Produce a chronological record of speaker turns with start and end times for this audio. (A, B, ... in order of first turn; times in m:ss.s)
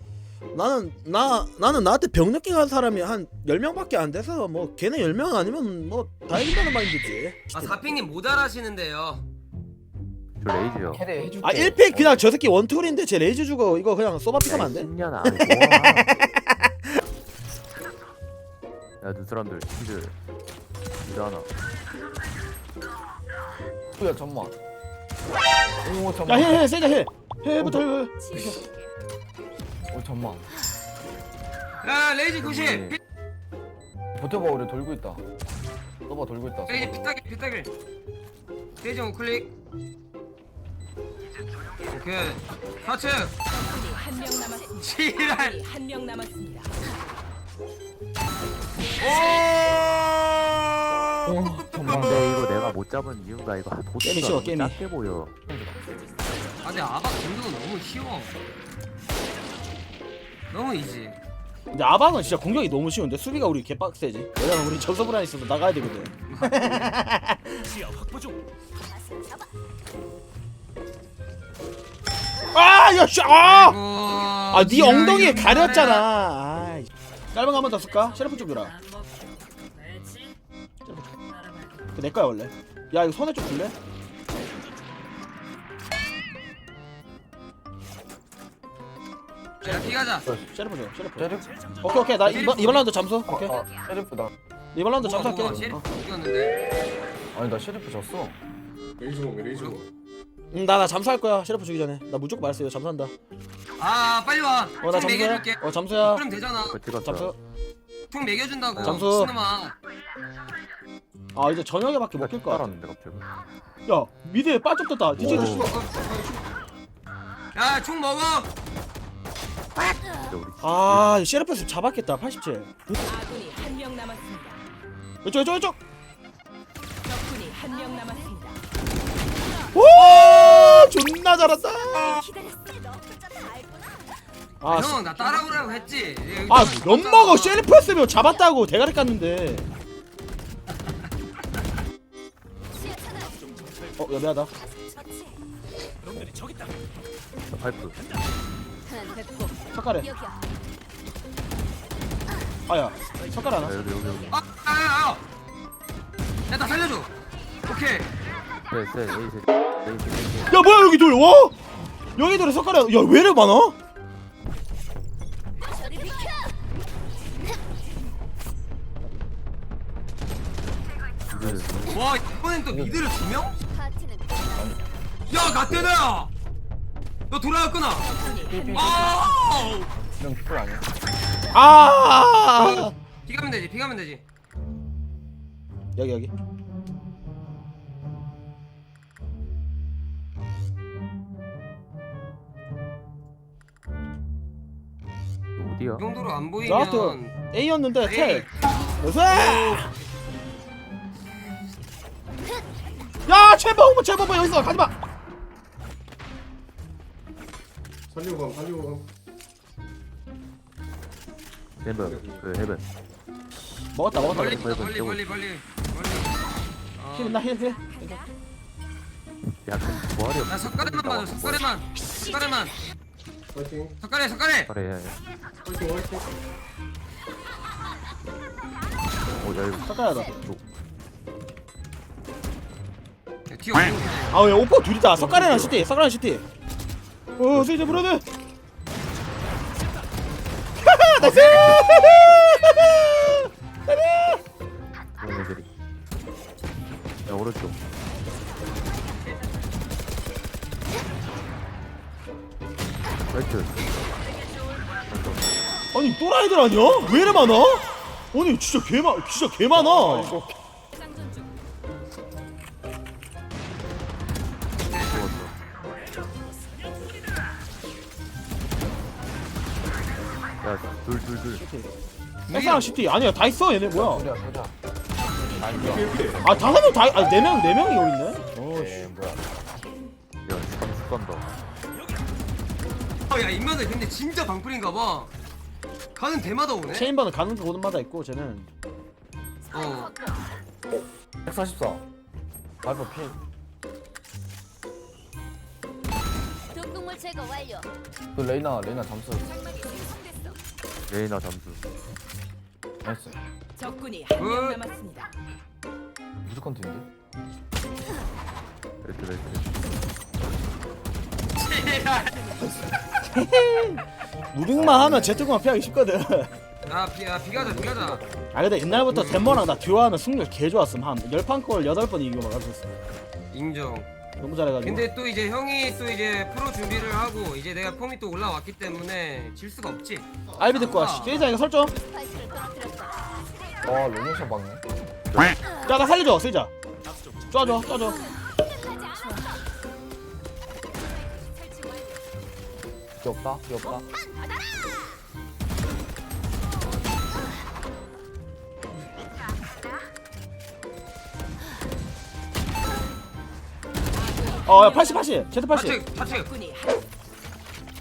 0:00.5-0:07.8 A
0:07.5-0:09.2 B
0:10.4-0:11.0 C
0:10.9-0:12.2 D
0:11.4-0:16.7 A
0:14.4-0:16.1 C
0:19.0-0:20.2 C
0:21.0-0:21.5 C
0:24.0-0:24.6 D
0:25.8-0:26.7 D
0:26.2-0:28.7 A
0:29.9-0:30.5 D
0:31.8-0:33.0 B
0:32.5-0:33.0 C
0:34.2-0:35.2 D
0:36.1-0:37.1 D
0:36.7-0:37.7 B
0:38.8-0:39.5 B
0:41.9-0:43.4 B
0:43.6-0:44.9 E
0:44.8-0:45.7 B
0:45.6-0:46.7 E
0:49.0-0:51.5 B
0:51.2-0:52.3 D
0:51.8-0:55.3 C
0:54.0-0:54.8 A
0:55.5-0:55.8 D
0:56.6-0:58.3 B
1:00.5-1:01.2 B
1:01.7-1:07.5 A
1:06.3-1:06.9 B
1:12.5-1:13.8 A
1:13.4-1:16.1 B
1:14.5-1:18.8 A
1:20.8-1:21.1 A
1:21.9-1:23.8 A
1:29.6-1:30.3 B
1:30.5-1:33.6 A
1:31.2-1:31.5 D
1:32.2-1:32.9 B
1:33.3-1:34.3 D
1:34.7-1:35.8 A
1:35.0-1:36.6 B
1:37.3-1:38.4 D
1:39.0-1:39.8 F
1:39.5-1:39.8 B
1:40.5-1:43.1 A
1:43.8-1:46.8 B
1:44.8-1:46.2 A
1:46.6-1:47.3 C
1:47.0-1:47.4 A
1:48.1-1:49.8 B
1:48.8-1:49.1 C
1:48.8-1:49.3 A
1:51.3-1:52.7 A
1:52.1-1:53.2 C
1:53.9-1:55.7 A
1:55.2-1:56.4 F
1:55.2-1:55.7 C
1:55.6-1:55.9 B
1:57.5-1:58.5 B
2:00.2-2:01.2 C
2:00.6-2:02.7 A
2:03.1-2:04.6 E
2:05.2-2:05.8 A
2:07.1-2:08.6 E
2:09.7-2:12.2 A
2:12.1-2:14.1 G
2:14.6-2:15.1 A
2:14.7-2:17.6 B
2:16.5-2:19.7 A
2:22.8-2:23.4 G
2:24.0-2:24.5 A
2:27.5-2:28.0 C
2:28.9-2:29.5 G
2:29.7-2:30.1 A
2:32.7-2:33.8 A
2:33.6-2:34.4 C
2:34.3-2:35.2 B
2:36.5-2:37.1 B
2:37.6-2:38.1 B
2:38.7-2:40.6 C
2:40.5-2:41.6 A
2:42.2-2:43.8 A
2:45.7-2:46.5 G
2:51.3-2:52.0 C
2:51.4-2:51.8 D
2:51.9-2:53.6 B
2:52.7-2:53.1 D
2:53.7-2:54.6 G
2:54.5-2:54.8 D
2:55.3-2:56.3 B
2:57.3-2:59.9 B
2:58.3-2:58.6 E
2:58.3-2:59.3 D
3:00.2-3:00.9 D
3:01.5-3:02.9 A
3:02.6-3:04.2 B
3:06.0-3:06.3 A
3:15.6-3:16.0 C
3:16.0-3:17.3 B
3:16.6-3:18.5 A
3:18.0-3:19.9 B
3:19.0-3:19.9 A
3:23.3-3:24.9 A
3:28.1-3:29.1 F
3:31.8-3:32.8 C
3:32.0-3:32.4 F
3:33.9-3:34.7 A
3:34.2-3:36.4 B
3:34.3-3:35.4 C
3:37.0-3:37.4 B
3:37.1-3:38.0 A
3:37.9-3:38.2 E
3:39.6-3:41.8 C
3:40.5-3:42.8 B
3:43.5-3:43.9 F
3:44.0-3:44.7 B
3:44.7-3:45.2 C
3:45.6-3:46.3 F
3:49.2-3:50.6 C
3:49.8-3:50.4 A
3:53.5-3:54.4 B
3:54.3-3:56.4 A
3:57.4-3:58.2 A
3:57.5-3:58.1 C
4:00.8-4:04.4 A
4:01.2-4:02.1 B
4:05.1-4:05.7 C
4:07.2-4:07.8 C
4:13.3-4:13.8 C
4:15.1-4:15.6 C
4:15.9-4:20.4 A
4:19.8-4:20.5 D
4:24.9-4:25.2 B
4:25.0-4:25.6 C
4:30.6-4:31.6 C
4:31.6-4:31.9 A
4:32.5-4:33.0 B
4:32.5-4:34.3 A
4:33.9-4:34.8 D
4:35.5-4:36.8 D
4:35.8-4:36.4 F
4:36.4-4:39.1 A
4:38.7-4:39.4 D
4:40.4-4:41.5 C
4:43.3-4:45.3 B
4:46.1-4:47.1 B
4:46.9-4:48.7 A
4:49.7-4:50.1 B
4:51.4-4:52.0 D
4:52.8-4:53.4 D
4:56.7-4:57.9 G
4:58.3-4:59.6 D
4:59.7-5:00.3 E
5:01.1-5:01.8 C
5:03.0-5:03.4 D
5:03.8-5:05.3 E
5:04.4-5:04.9 B
5:06.4-5:07.1 D
5:09.0-5:09.6 C
5:11.6-5:12.6 B
5:13.3-5:16.5 A
5:14.7-5:15.5 D
5:16.9-5:18.2 B
5:17.5-5:18.3 D
5:18.5-5:22.9 A
5:19.1-5:19.6 B
5:23.5-5:24.1 B
5:24.4-5:25.1 A
5:24.8-5:31.4 B
5:30.6-5:32.0 A
5:32.1-5:33.3 G
5:33.8-5:34.8 D
5:35.3-5:35.6 C
5:35.8-5:36.7 A
5:37.5-5:38.2 A
5:43.2-5:44.1 D
5:44.1-5:45.1 G
5:54.6-5:56.0 A
5:55.7-5:56.6 B